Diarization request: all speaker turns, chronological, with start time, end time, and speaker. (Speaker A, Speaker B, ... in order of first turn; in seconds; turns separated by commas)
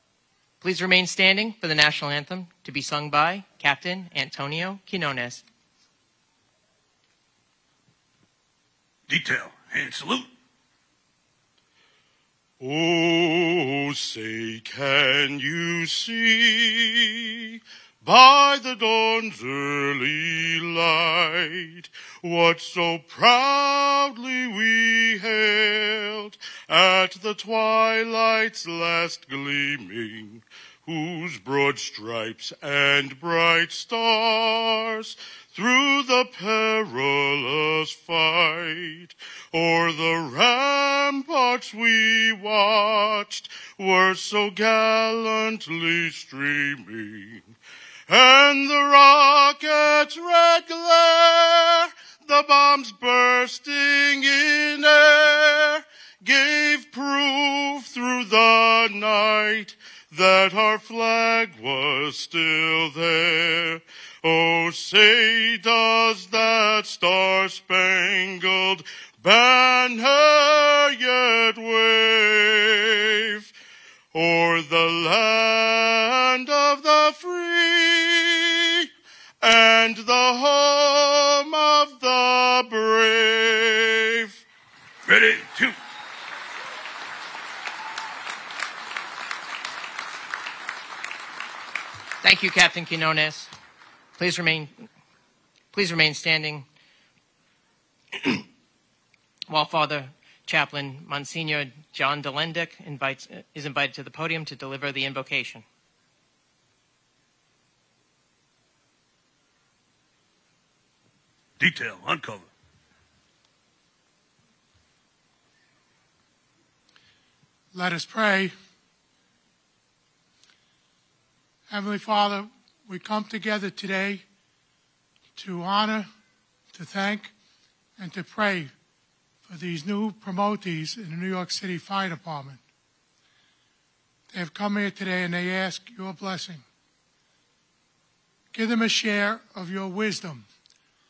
Speaker A: 0.6-5.4, Speaker B: 9.1-10.3, Speaker C: 12.6-47.5, Speaker C: 48.1-73.5, Speaker C: 74.1-78.9, Speaker C: 79.4-84.4, Speaker B: 85.0-85.8, Speaker A: 92.2-93.5, Speaker A: 94.2-94.8, Speaker A: 95.7-96.6, Speaker A: 98.1-98.4, Speaker A: 99.5-105.6, Speaker B: 111.6-112.5, Speaker D: 117.7-118.5, Speaker D: 121.7-124.2, Speaker D: 125.3-126.1, Speaker D: 126.7-127.3, Speaker D: 128.0-128.7, Speaker D: 129.4-132.6, Speaker D: 134.3-136.6, Speaker D: 138.5-140.5